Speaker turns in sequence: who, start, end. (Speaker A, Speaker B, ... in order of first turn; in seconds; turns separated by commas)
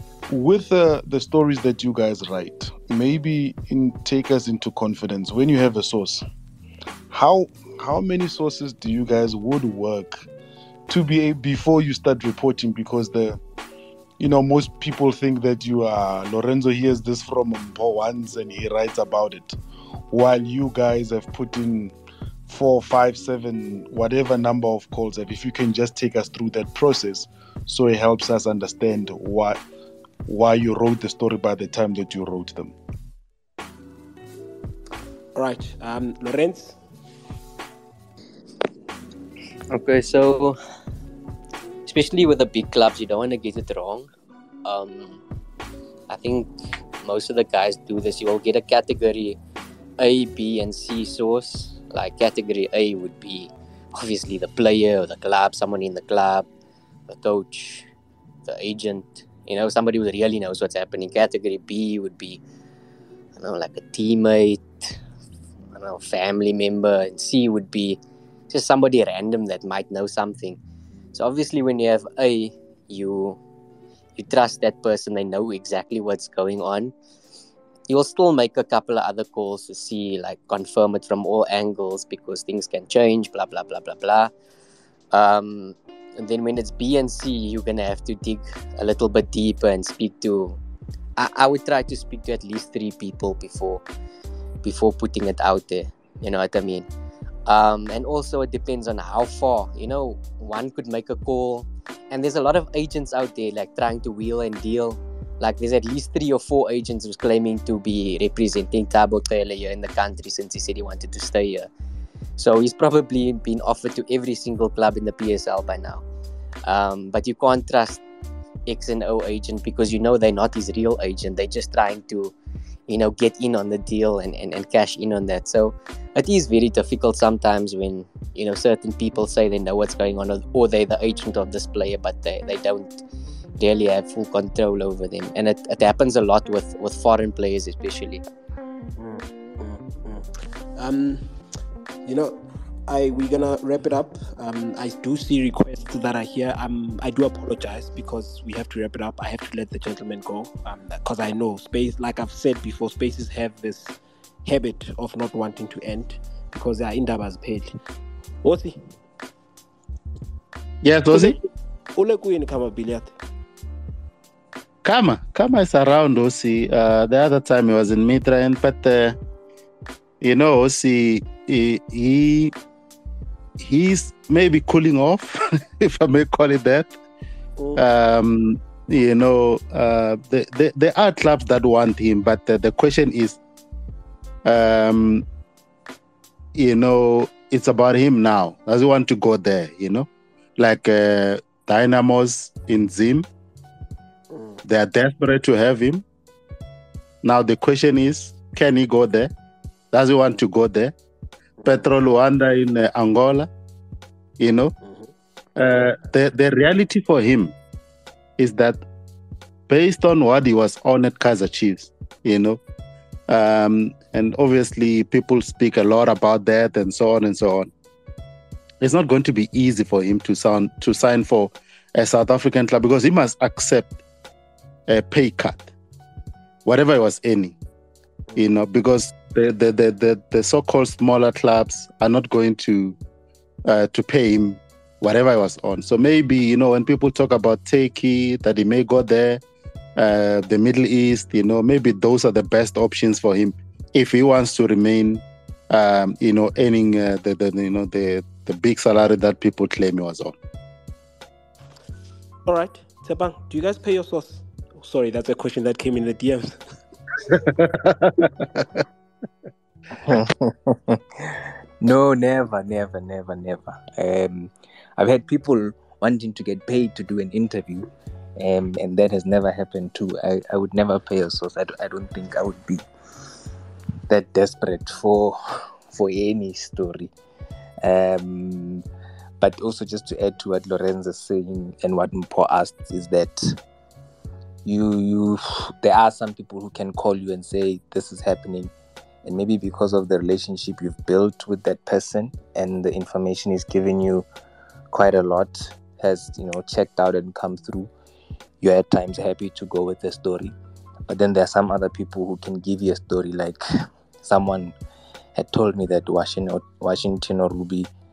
Speaker A: 0.3-6.2, Speaker A: 7.1-10.3, Speaker A: 10.9-13.4, Speaker A: 14.2-19.6, Speaker A: 20.1-21.9, Speaker A: 22.5-29.6, Speaker A: 30.3-32.7, Speaker B: 35.4-36.8, Speaker C: 39.7-40.6, Speaker C: 41.9-44.1, Speaker C: 44.6-45.2, Speaker C: 46.1-49.4, Speaker C: 50.0-56.5, Speaker C: 57.1-57.9, Speaker C: 58.5-62.4, Speaker C: 63.4-65.0, Speaker C: 65.7-68.0, Speaker C: 68.5-70.6, Speaker C: 71.1-73.4, Speaker C: 74.2-76.9, Speaker C: 77.9-84.3, Speaker C: 85.1-90.6, Speaker C: 91.2-93.8, Speaker C: 94.6-96.9, Speaker C: 97.5-111.7, Speaker C: 112.4-116.0, Speaker C: 116.7-118.0, Speaker C: 118.7-122.3, Speaker C: 122.9-133.0, Speaker C: 133.6-138.2, Speaker B: 139.0-141.3, Speaker B: 142.1-157.8, Speaker B: 158.4-158.8, Speaker D: 160.8-161.4, Speaker B: 161.9-163.1, Speaker D: 164.8-169.2, Speaker D: 170.2-172.5, Speaker D: 173.6-177.0, Speaker D: 177.8-183.4, Speaker D: 184.4-185.3, Speaker D: 186.6-190.1, Speaker D: 190.6-193.3, Speaker B: 194.3-194.6, Speaker D: 194.7-196.0, Speaker D: 197.2-199.3, Speaker D: 199.9-200.9, Speaker D: 201.7-203.5, Speaker D: 204.4-204.7, Speaker B: 204.8-205.1, Speaker D: 205.6-207.6, Speaker D: 208.4-208.8, Speaker D: 209.7-212.6, Speaker D: 213.3-217.7, Speaker D: 218.8-224.0, Speaker D: 224.9-225.7, Speaker D: 226.7-227.6, Speaker D: 228.4-233.0, Speaker D: 233.7-239.4, Speaker D: 240.0-250.4, Speaker B: 252.5-256.6, Speaker D: 257.3-258.8, Speaker E: 260.0-272.9, Speaker E: 274.1-277.1, Speaker E: 277.8-278.8, Speaker E: 279.4-283.6, Speaker E: 284.6-288.7, Speaker E: 289.2-294.3, Speaker E: 294.9-297.9, Speaker E: 298.6-300.5, Speaker E: 301.1-303.6, Speaker E: 304.2-304.7, Speaker E: 305.4-307.9